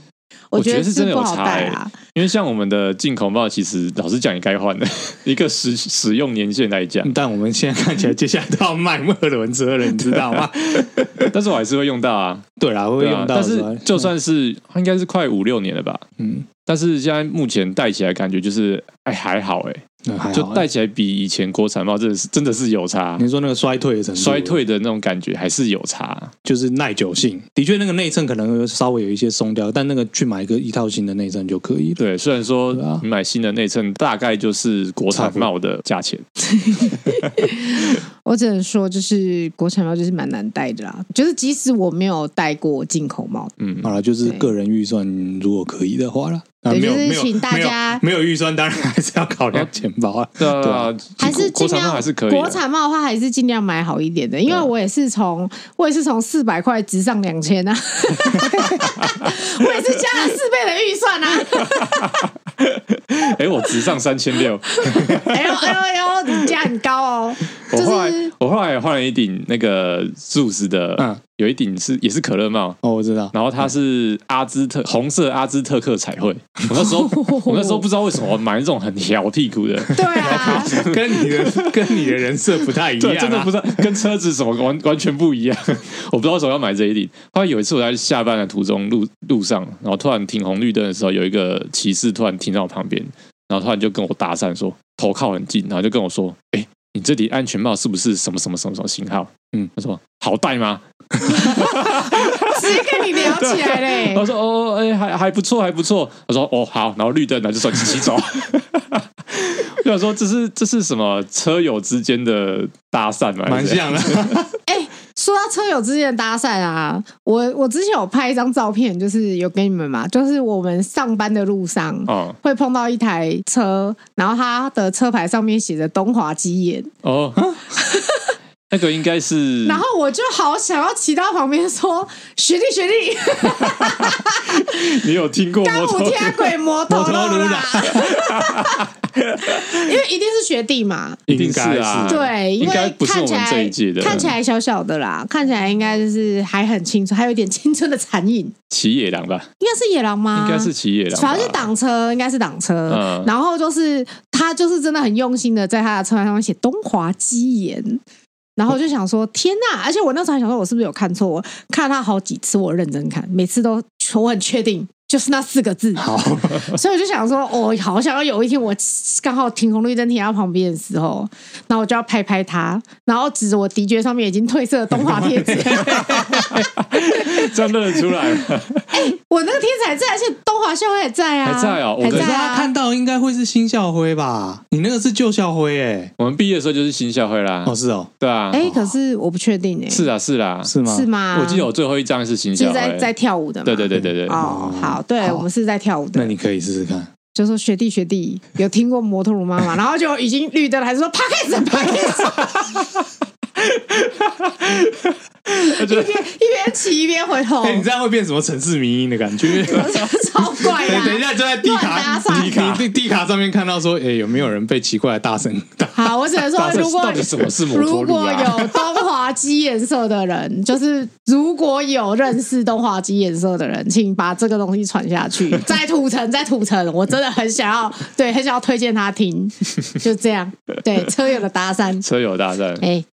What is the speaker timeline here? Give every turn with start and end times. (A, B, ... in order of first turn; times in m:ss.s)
0:00.5-0:01.9 A
0:00.6-0:07.1 B
0:07.0-0:11.3 C
0:11.3-0:12.5 B
0:12.6-0:14.1 C
0:13.0-0:16.0 B
0:16.2-0:16.5 C
0:16.7-0:23.3 B
0:20.0-0:20.7 C
0:23.2-0:24.6 C
0:24.2-0:26.3 B
0:26.4-0:32.0 C
0:32.0-0:36.2 B
0:32.7-0:33.0 C
0:35.1-0:35.5 C
0:36.6-0:43.5 A
0:36.8-0:37.3 B
0:43.6-0:44.0 B
0:43.8-0:50.9 C
0:44.2-0:44.5 A
0:46.7-0:48.0 A
0:50.4-0:52.6 B
0:51.2-1:02.3 A
0:58.8-0:59.3 B
1:01.6-1:05.4 B
1:04.8-1:08.3 A
1:07.7-1:12.8 B
1:12.8-1:13.3 C
1:13.3-1:21.7 B
1:16.8-1:17.8 A
1:19.9-1:20.8 A
1:20.1-1:23.9 C
1:23.0-1:54.4 B
1:41.5-1:44.3 A
1:53.5-1:54.5 C
1:54.7-2:06.9 A
2:02.1-2:02.4 B
2:07.0-2:07.4 B
2:07.8-2:08.3 A
2:08.7-2:09.8 B
2:09.6-2:14.9 A
2:13.6-2:16.6 B
2:15.6-2:18.8 A
2:16.9-2:18.1 C
2:17.9-2:19.7 B
2:19.5-2:21.2 A
2:21.3-2:22.2 C
2:21.3-2:24.3 B
2:22.1-2:28.5 A
2:28.7-2:29.5 B
2:29.6-2:38.0 A
2:30.4-2:31.7 B
2:32.9-2:33.3 B
2:38.6-2:56.5 A
2:46.0-2:46.7 C
2:54.9-2:57.4 C
2:55.9-2:59.1 B
2:58.9-3:02.7 A
3:01.4-3:02.3 B
3:02.1-3:06.1 C
3:06.2-3:08.6 B
3:07.7-3:08.9 C
3:08.5-3:10.1 A
3:09.9-3:10.7 B
3:10.6-3:11.1 C
3:10.8-3:11.7 A
3:11.3-3:13.1 B
3:12.6-3:16.3 A
3:13.6-3:14.4 B
3:14.0-3:15.5 C
3:16.2-3:17.1 C
3:17.3-3:22.7 A
3:24.4-3:25.1 B
3:25.5-3:27.9 A
3:25.6-3:26.1 B
3:27.6-3:30.1 C
3:29.5-3:32.7 A
3:30.6-3:36.1 C
3:32.3-3:32.9 B
3:36.0-3:52.0 A
3:36.6-3:38.8 B
3:52.0-3:52.8 B